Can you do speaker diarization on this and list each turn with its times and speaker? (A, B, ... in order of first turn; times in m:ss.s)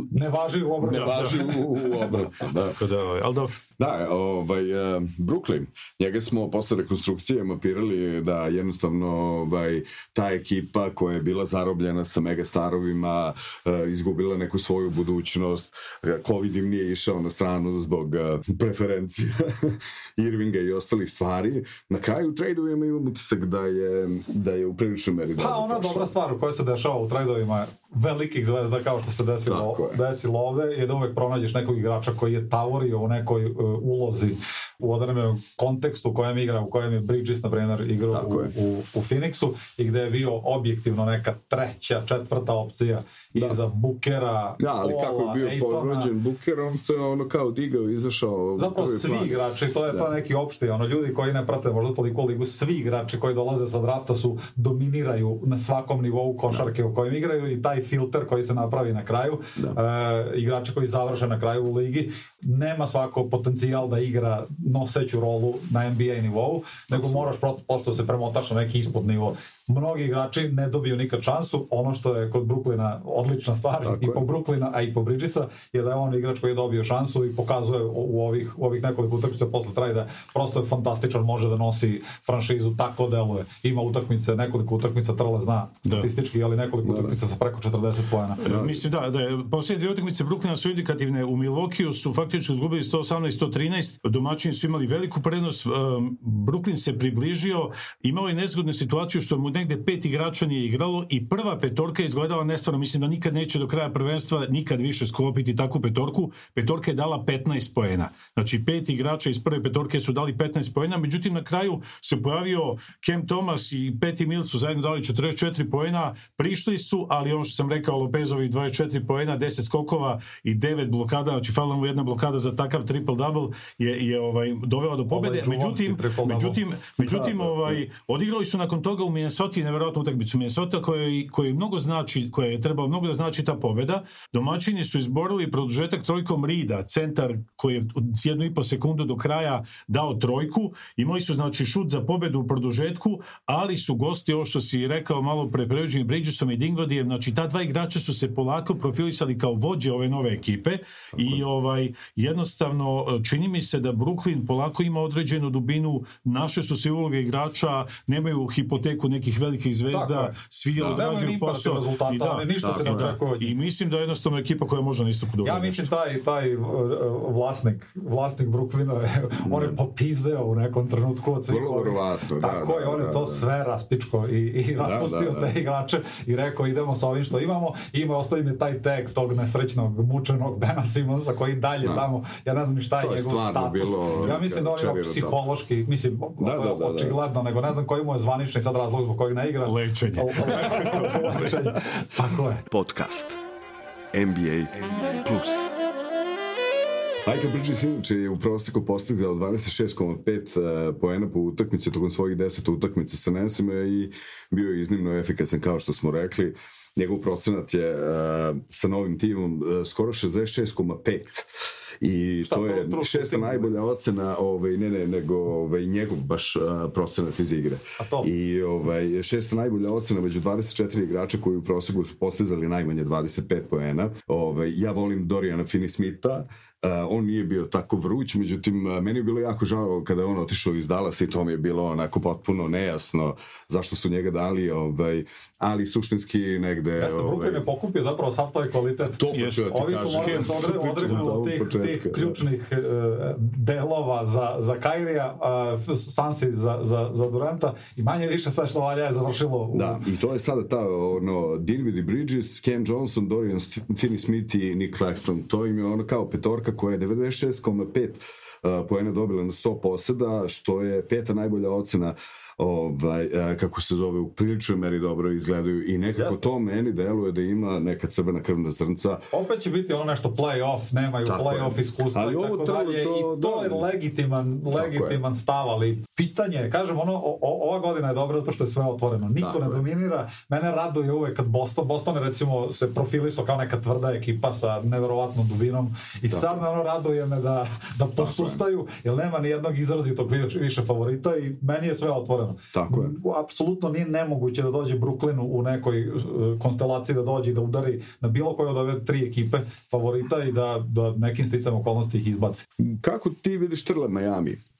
0:00.1-0:01.6 A
0:00.8-0:02.8 B
0:00.9-0:01.4 C
0:02.6-0:03.6 C
0:03.8-0:26.1 B
0:25.4-0:46.1 A
0:29.5-0:30.0 B
0:38.1-0:38.5 B
0:44.6-0:49.4 B
0:48.6-1:28.4 A
1:06.9-1:07.3 B
1:13.8-1:14.2 B
1:26.8-1:27.2 B
1:28.4-2:45.9 C
1:28.4-1:28.8 B
2:05.1-2:06.6 A
2:07.0-2:07.8 B
2:31.1-2:31.4 B
2:39.9-2:43.5 A
2:40.8-2:41.0 B
2:42.6-2:43.2 B
2:45.4-3:12.6 A
2:49.4-2:49.8 B
2:51.5-2:53.4 B
2:54.8-2:55.5 B
3:03.0-3:05.4 B
3:06.4-3:07.2 B
3:09.6-3:11.0 C
3:12.7-3:13.4 B
3:14.1-3:15.7 B
3:17.2-3:31.5 B
3:32.0-3:57.6 B
3:32.4-3:33.8 A
3:38.0-3:38.3 A
3:57.0-4:10.0 A
3:59.1-4:02.4 B
3:59.3-4:01.3 C
4:09.7-4:29.2 B
4:26.2-4:26.4 A
4:29.3-5:02.6 A
4:31.2-4:33.9 B
4:34.7-4:35.2 B
4:39.4-4:39.8 B
4:46.3-4:46.6 B
4:48.2-4:48.6 B
4:52.7-4:53.1 B
5:02.8-5:04.6 B